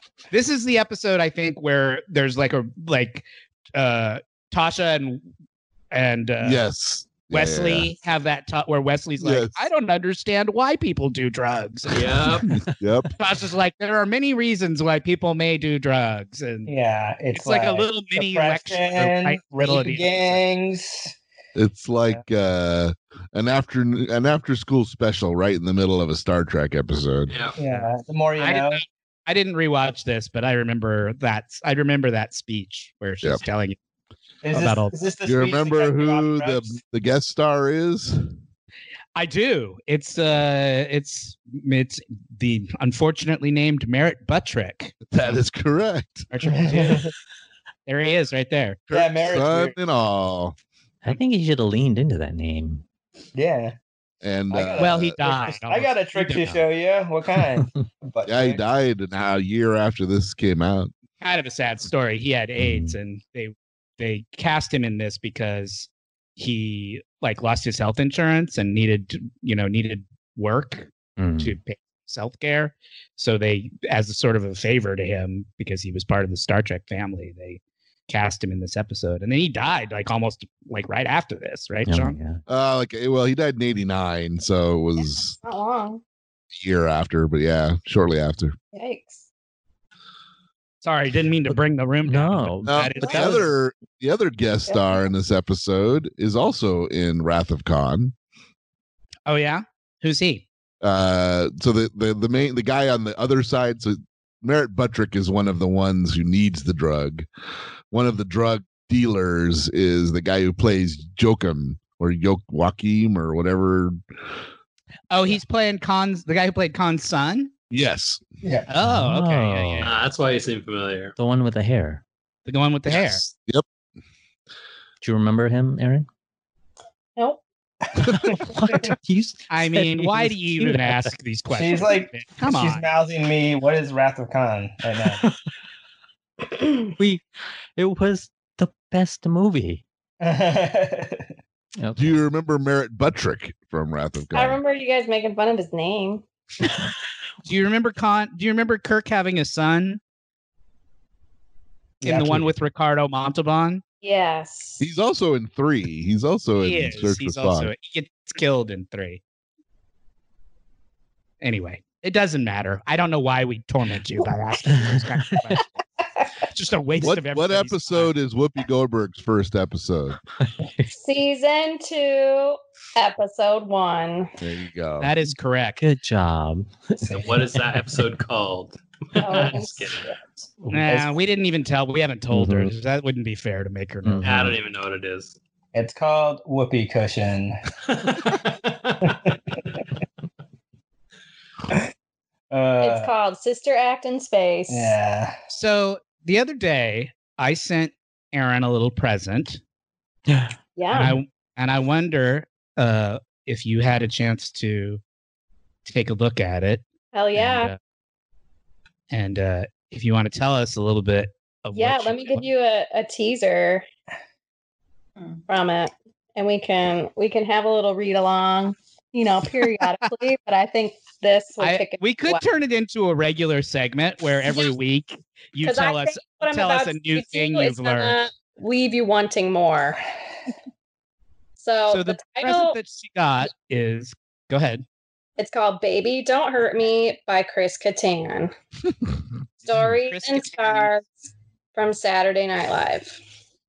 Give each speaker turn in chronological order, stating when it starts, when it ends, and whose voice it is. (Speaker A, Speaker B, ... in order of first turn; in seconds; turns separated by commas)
Speaker A: 0.3-5.3, Speaker A: 5.9-6.7, Speaker B: 6.4-7.9, Speaker A: 7.3-12.5, Speaker B: 9.2-9.6, Speaker C: 11.9-12.5, Speaker B: 12.5-13.1, Speaker A: 13.2-16.7, Speaker D: 16.7-21.1, Speaker A: 17.3-20.4, Speaker B: 21.6-27.3, Speaker C: 27.3-27.6, Speaker D: 27.6-28.8, Speaker A: 27.6-33.8, Speaker D: 34.4-36.8, Speaker A: 34.5-35.0, Speaker B: 35.2-38.3, Speaker A: 39.2-44.9, Speaker B: 45.1-46.3, Speaker A: 46.3-47.1, Speaker D: 46.5-47.1, Speaker A: 47.9-48.9, Speaker B: 48.9-50.5, Speaker D: 48.9-49.8, Speaker E: 51.0-52.8, Speaker D: 53.4-53.8, Speaker B: 54.2-55.2, Speaker D: 54.5-58.6, Speaker A: 54.8-56.6, Speaker B: 58.2-60.9, Speaker A: 61.2-82.2, Speaker E: 62.6-63.0, Speaker E: 71.2-71.5, Speaker E: 81.9-82.4, Speaker B: 82.5-85.3, Speaker F: 85.0-86.0, Speaker B: 86.5-88.6, Speaker F: 88.7-89.3, Speaker A: 90.8-93.5, Speaker E: 92.1-93.5, Speaker B: 92.7-98.1, Speaker F: 94.7-95.1, Speaker A: 99.3-100.5, Speaker B: 100.8-107.3, Speaker B: 107.9-114.0, Speaker A: 115.1-117.5, Speaker B: 117.7-118.2, Speaker D: 118.4-118.7, Speaker A: 118.7-120.0, Speaker E: 118.8-119.9, Speaker C: 119.8-121.2, Speaker E: 121.2-122.0, Speaker A: 122.5-123.2, Speaker B: 122.9-123.7, Speaker E: 125.0-126.1, Speaker F: 127.2-127.4, Speaker D: 128.0-128.9, Speaker E: 128.1-131.1, Speaker A: 129.5-132.9, Speaker D: 131.5-135.2, Speaker E: 137.0-137.2, Speaker E: 137.8-139.8, Speaker D: 140.2-141.2, Speaker E: 141.8-142.2, Speaker B: 142.0-144.6, Speaker F: 144.3-146.2, Speaker A: 147.4-150.0, Speaker D: 152.0-152.5, Speaker A: 152.0-153.8, Speaker F: 154.0-154.9, Speaker B: 154.8-157.7, Speaker A: 156.6-159.2, Speaker A: 161.4-165.6, Speaker E: 164.7-165.6, Speaker A: 166.4-168.1, Speaker B: 167.0-170.2, Speaker E: 170.4-170.9, Speaker F: 170.9-174.3, Speaker B: 174.4-175.1, Speaker A: 175.0-175.8, Speaker E: 175.8-177.1, Speaker D: 177.0-177.3, Speaker C: 177.1-180.1, Speaker F: 179.2-180.2, Speaker E: 180.6-181.0, Speaker A: 180.7-184.3, Speaker E: 182.3-182.7, Speaker E: 184.0-184.6, Speaker C: 184.2-185.4, Speaker D: 185.7-187.6, Speaker C: 187.9-189.1, Speaker D: 189.0-189.4, Speaker D: 192.5-193.1, Speaker F: 192.8-195.0, Speaker D: 194.7-195.4, Speaker A: 195.5-199.6, Speaker E: 200.3-201.2, Speaker F: 200.8-201.2, Speaker A: 200.9-205.0, Speaker A: 205.8-206.8, Speaker F: 207.1-207.7, Speaker A: 207.3-207.8, Speaker A: 209.1-212.4, Speaker F: 211.7-213.9, Speaker F: 215.5-222.5, Speaker A: 221.6-228.2, Speaker F: 224.5-224.7, Speaker F: 225.6-230.0, Speaker F: 231.6-232.8, Speaker A: 231.9-234.8, Speaker F: 235.4-238.5, Speaker F: 239.7-241.1, Speaker A: 239.7-241.0, Speaker F: 241.7-243.2